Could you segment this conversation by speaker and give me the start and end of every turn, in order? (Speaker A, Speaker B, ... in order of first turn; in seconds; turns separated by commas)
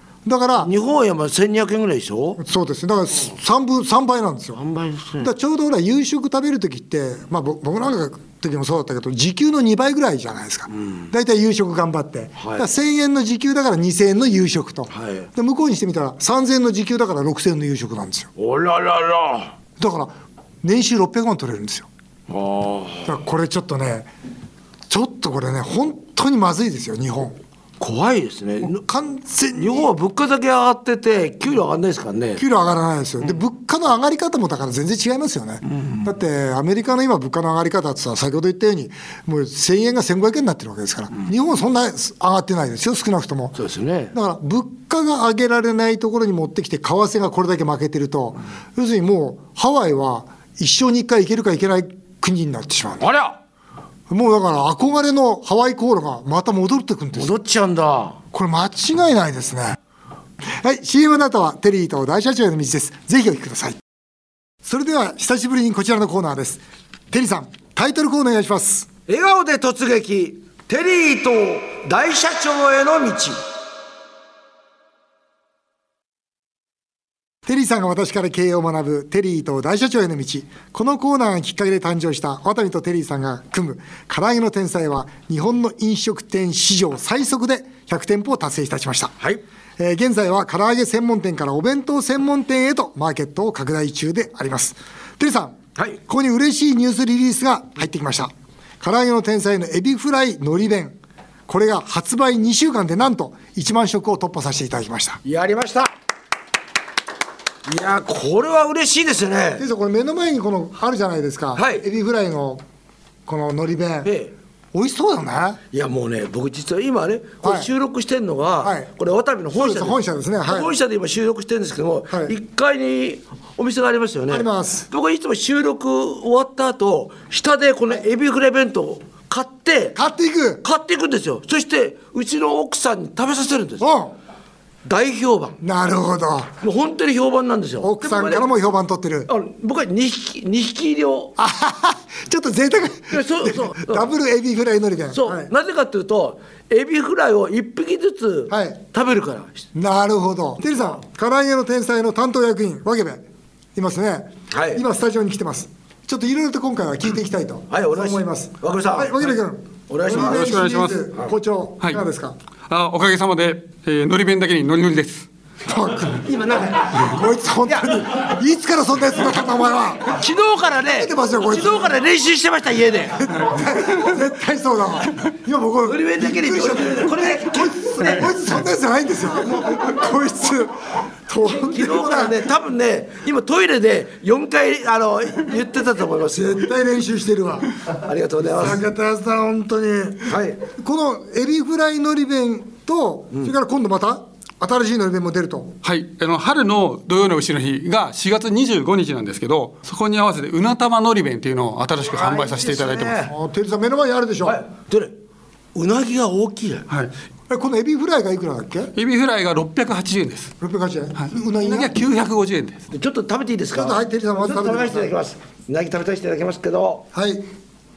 Speaker A: 0.2-0.7, Speaker B: 0.6-2.4, Speaker A: 2.4-4.6, Speaker B: 4.5-5.3, Speaker A: 5.2-18.3, Speaker B: 12.4-12.6, Speaker B: 14.9-15.3, Speaker B: 18.4-19.5, Speaker A: 19.8-21.9, Speaker B: 22.3-23.1, Speaker A: 23.0-24.1, Speaker A: 24.9-27.4, Speaker B: 27.8-28.8, Speaker A: 28.6-29.9, Speaker B: 29.6-32.4, Speaker A: 32.4-43.6, Speaker B: 43.5-44.1, Speaker A: 44.1-53.1, Speaker B: 53.0-53.4, Speaker A: 54.1-57.3, Speaker B: 57.1-58.2, Speaker A: 58.3-59.8, Speaker A: 60.5-63.8, Speaker A: 64.6-68.9, Speaker B: 69.1-73.4, Speaker A: 77.5-89.1, Speaker A: 89.8-101.0, Speaker A: 101.5-105.2, Speaker B: 105.2-105.9, Speaker B: 107.7-109.7, Speaker A: 109.6-112.6, Speaker B: 111.5-111.8, Speaker A: 113.3-114.1, Speaker B: 114.0-114.3, Speaker A: 114.7-115.6, Speaker B: 115.7-130.0, Speaker A: 117.4-117.7, Speaker A: 118.6-118.9, Speaker A: 119.5-120.7, Speaker A: 124.3-124.8, Speaker A: 129.9-130.6, Speaker B: 130.6-133.9, Speaker A: 133.8-134.1, Speaker B: 134.8-135.6, Speaker A: 135.6-136.5, Speaker B: 136.6-138.4, Speaker A: 137.8-139.3, Speaker B: 139.3-141.3, Speaker A: 141.4-145.5, Speaker B: 143.1-144.1, Speaker B: 145.1-149.6, Speaker A: 148.5-148.8, Speaker A: 149.7-153.2, Speaker A: 153.8-162.3, Speaker B: 154.5-154.8, Speaker B: 157.7-159.3, Speaker B: 159.9-160.6, Speaker C: 160.1-161.0, Speaker C: 162.7-165.3, Speaker A: 165.7-166.3, Speaker B: 166.2-168.0, Speaker A: 166.8-170.2, Speaker B: 170.0-173.5, Speaker A: 170.9-172.0, Speaker A: 173.2-182.4, Speaker B: 175.8-178.3, Speaker B: 181.4-186.7, Speaker A: 186.3-187.7, Speaker B: 187.9-188.8, Speaker A: 188.5-195.8, Speaker B: 190.2-190.6, Speaker C: 195.8-203.2, Speaker B: 202.0-203.3, Speaker A: 203.3-204.6, Speaker B: 204.4-205.2, Speaker B: 205.7-206.9, Speaker A: 207.5-208.9, Speaker C: 208.9-210.5, Speaker A: 210.6-212.0, Speaker C: 211.2-212.9, Speaker B: 212.9-217.1, Speaker A: 213.7-215.1, Speaker A: 217.1-217.5